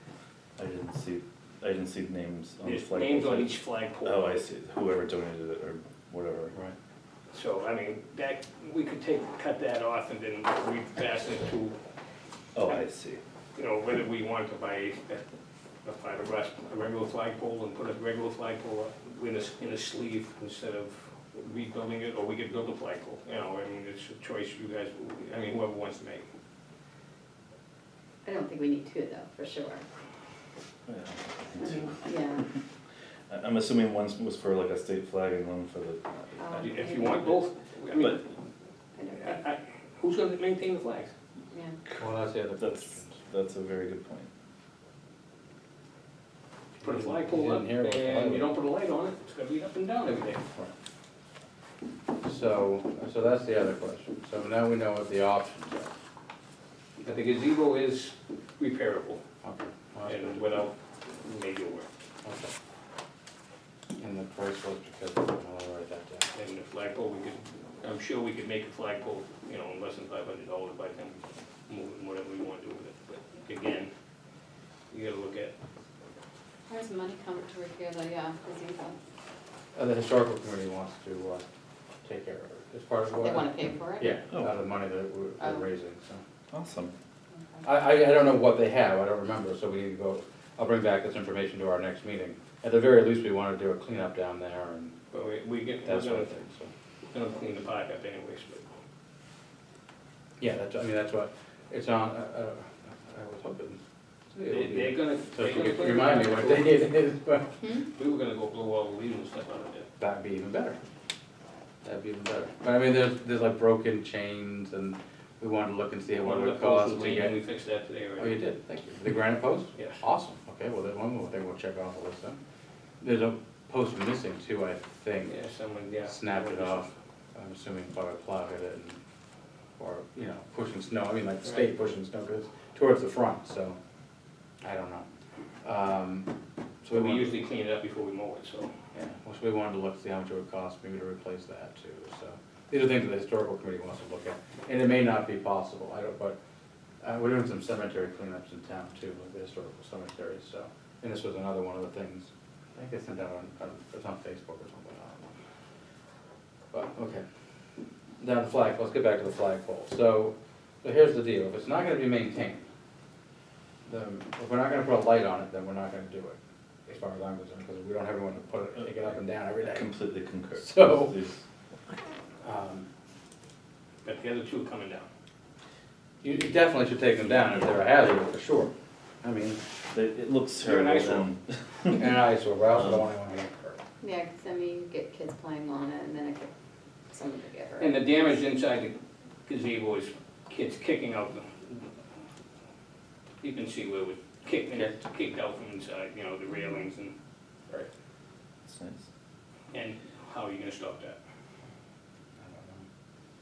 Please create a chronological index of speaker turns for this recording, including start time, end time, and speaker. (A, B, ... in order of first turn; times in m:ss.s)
0:00.6-0:06.5 A
0:02.6-0:04.4 B
0:07.3-0:11.8 B
0:12.5-0:13.2 A
0:13.5-0:15.2 B
0:15.8-0:26.2 B
0:28.2-0:29.8 C
0:30.9-0:32.1 A
0:32.0-0:32.4 C
0:33.3-0:36.0 A
0:36.4-0:37.4 C
0:36.5-0:38.3 B
0:37.9-0:38.2 A
0:39.0-0:39.4 C
0:39.2-0:41.1 B
0:41.5-0:41.8 C
0:42.0-0:43.2 D
0:42.6-0:44.3 A
0:46.8-0:48.6 D
0:46.8-0:50.4 B
0:52.2-0:55.9 D
0:57.0-0:59.2 B
0:59.4-1:00.4 D
1:00.1-1:01.9 B
1:02.2-1:02.5 D
1:04.0-1:06.3 D
1:06.3-1:13.9 B
1:14.9-1:15.5 B
1:16.7-1:19.0 C
1:19.7-1:21.4 D
1:22.0-1:26.2 D
1:23.2-1:24.2 C
1:24.3-1:24.6 A
1:25.4-1:25.6 C
1:26.5-1:26.9 A
1:27.6-1:35.0 D
1:35.1-1:36.3 B
1:35.8-1:36.7 D
1:37.1-1:38.6 B
1:40.4-1:43.8 D
1:44.3-1:47.5 D
1:44.4-1:46.9 B
1:47.9-1:49.9 B
1:50.0-1:50.8 D
1:51.8-1:57.4 D
1:56.2-1:58.4 B
1:58.2-2:02.4 D
2:03.0-2:05.4 D
2:05.3-2:06.9 B
2:06.0-2:09.0 D
2:09.8-2:13.8 D
2:11.4-2:11.7 B
2:14.6-2:15.0 D
2:15.6-2:16.3 D
2:16.8-2:17.4 D
2:16.9-2:18.7 B
2:18.9-2:26.4 D
2:27.0-2:35.3 D
2:36.7-2:37.2 D
2:38.2-2:42.6 D
2:43.8-2:49.9 D
2:48.8-2:51.4 A
2:50.6-2:51.2 D
2:52.4-2:52.9 D
2:54.0-2:55.1 B
2:56.2-2:58.7 D
2:59.2-2:59.6 D
2:59.9-3:02.1 A
3:00.6-3:01.3 B
3:01.9-3:03.8 D
3:02.7-3:03.0 A
3:04.0-3:06.5 C
3:07.1-3:08.0 C
3:07.8-3:11.9 B
3:13.4-3:17.1 B
3:18.6-3:19.1 A
3:19.7-3:21.2 B
3:22.4-3:22.8 D